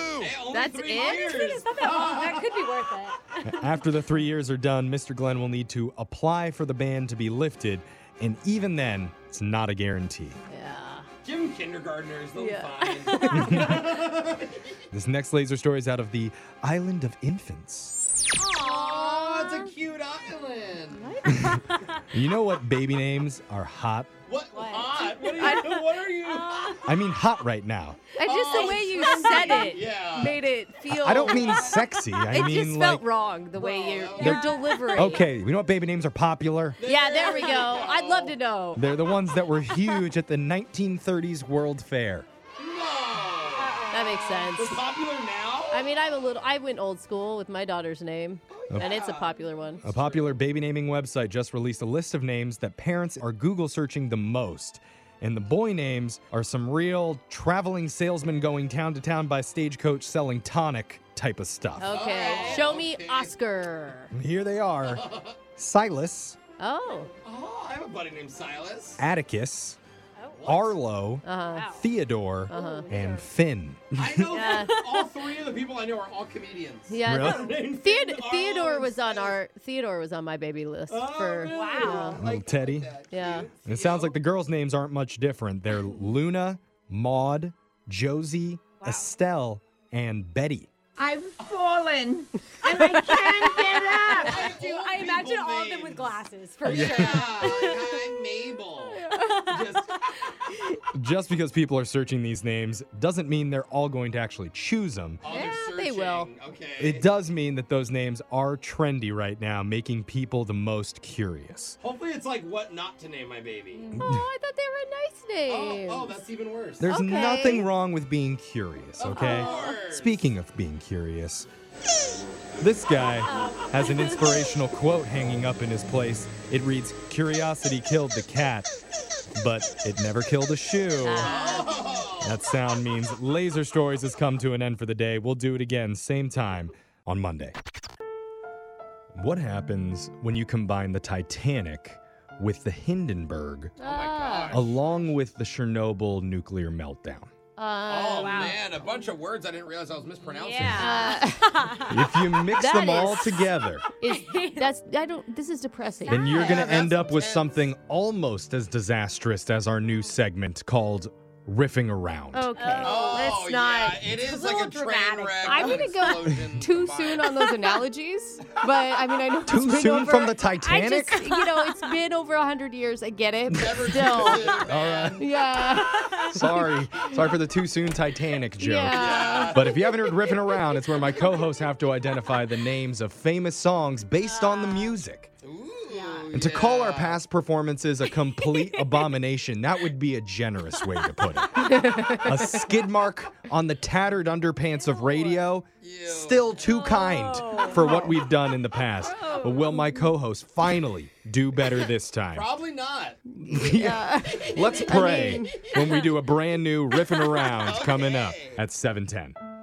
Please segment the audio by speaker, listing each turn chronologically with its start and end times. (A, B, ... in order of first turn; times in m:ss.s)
0:00.2-0:02.5 A
0:00.5-0:01.4 B
0:01.0-0:03.8 C
0:03.5-0:10.4 D
0:10.5-0:11.1 B
0:11.2-0:14.7 A
0:12.4-0:13.7 B
0:13.3-0:13.8 D
0:14.9-0:18.0 D
0:18.5-0:19.6 B
0:18.6-0:21.2 A
0:20.9-0:21.8 B
0:21.3-0:24.1 D
0:24.2-0:26.8 A
0:24.5-0:26.8 C
0:25.2-0:25.8 B
0:26.8-0:28.0 D
0:28.2-0:35.3 B
0:28.2-0:30.4 A
0:28.4-0:29.8 C
0:30.9-0:33.0 D
0:31.5-0:31.8 C
0:33.6-0:34.5 A
0:34.2-0:36.8 D
0:34.6-0:35.2 C
0:36.8-0:38.4 A
0:36.8-0:38.8 B
0:37.2-0:37.7 C
0:38.7-0:42.3 D
0:42.6-0:43.8 A
0:43.5-0:44.5 C
0:43.9-0:44.8 B
0:44.6-0:46.0 A
0:45.7-0:49.8 B
0:48.5-0:50.4 A
0:49.8-1:02.0 D
1:01.8-1:04.1 B
1:01.8-1:03.3 A
1:02.2-1:02.6 C
1:04.1-1:06.4 D
1:04.8-1:05.4 A
1:06.6-1:07.1 B
1:07.2-1:09.0 A
1:09.0-1:09.8 D
1:10.2-1:10.5 C
1:10.4-1:10.8 A
1:10.4-1:14.3 D
1:11.2-1:11.8 B
1:11.5-1:11.8 C
1:12.5-1:12.9 B
1:12.5-1:13.2 C
1:13.9-1:19.4 A
1:14.3-1:14.8 B
1:14.3-1:15.2 C
1:16.9-1:22.2 B
1:17.0-1:17.4 D
1:20.9-1:24.2 A
1:21.4-1:22.2 C
1:22.2-1:22.9 D
1:23.1-1:23.5 B
1:23.6-1:30.7 D
1:28.8-1:29.1 C
1:31.0-1:34.4 E
1:32.7-1:34.3 B
1:34.2-1:36.1 A
1:34.2-1:37.9 C
1:36.6-1:40.0 A
1:36.7-1:37.3 D
1:39.1-1:39.8 C
1:40.9-1:45.2 D
1:45.2-1:47.1 A
1:45.2-1:46.3 B
1:46.8-1:51.8 D
1:51.8-1:53.9 A
1:53.9-1:54.2 D
1:54.0-1:56.2 B
1:55.4-1:56.9 A
1:56.8-2:01.5 D
1:56.9-1:57.7 B
1:59.1-2:00.2 A
1:59.1-1:59.8 B
1:59.2-1:59.8 C
2:02.6-2:08.7 D
2:03.2-2:04.6 C
2:09.3-2:11.4 D
2:11.0-2:11.7 B
2:11.1-2:12.4 A
2:11.4-2:11.7 C
2:12.2-2:17.6 D
2:19.1-2:23.7 D
2:23.8-2:24.6 B
2:23.8-2:24.7 A
2:24.5-2:27.3 D
2:27.6-2:28.6 B
2:27.9-2:31.1 A
2:28.1-2:28.6 C
2:30.2-2:32.2 C
2:30.8-2:31.6 B
2:31.9-2:33.8 D
2:32.6-2:33.4 B
2:34.0-2:36.7 B
2:34.0-2:34.7 C
2:36.0-2:36.9 C
2:36.1-2:42.5 D
2:36.4-2:37.7 A
2:42.3-2:44.3 B
2:42.5-2:43.5 C
2:42.8-2:47.4 A
2:44.1-2:46.3 C
2:45.4-2:54.6 B
2:49.5-2:51.2 D
2:51.1-2:51.9 C
2:53.5-2:55.2 A
2:53.5-2:55.2 D
2:55.2-2:56.8 B
2:55.7-2:56.4 C
2:56.3-3:05.3 D
2:58.6-2:59.6 B
2:58.9-2:59.9 A
2:59.1-3:01.2 C
3:04.2-3:05.0 C
3:05.4-3:07.2 A
3:05.9-3:06.3 C
3:06.3-3:22.5 D
3:08.2-3:09.1 C
3:10.8-3:11.7 C
3:11.6-3:12.6 B
3:15.8-3:16.6 A
3:16.6-3:18.1 C
3:17.6-3:18.1 B
3:19.0-3:20.0 C
3:22.3-3:23.2 A
3:23.4-3:25.6 B
3:23.4-3:29.4 D
3:24.5-3:25.3 A
3:27.5-3:28.6 A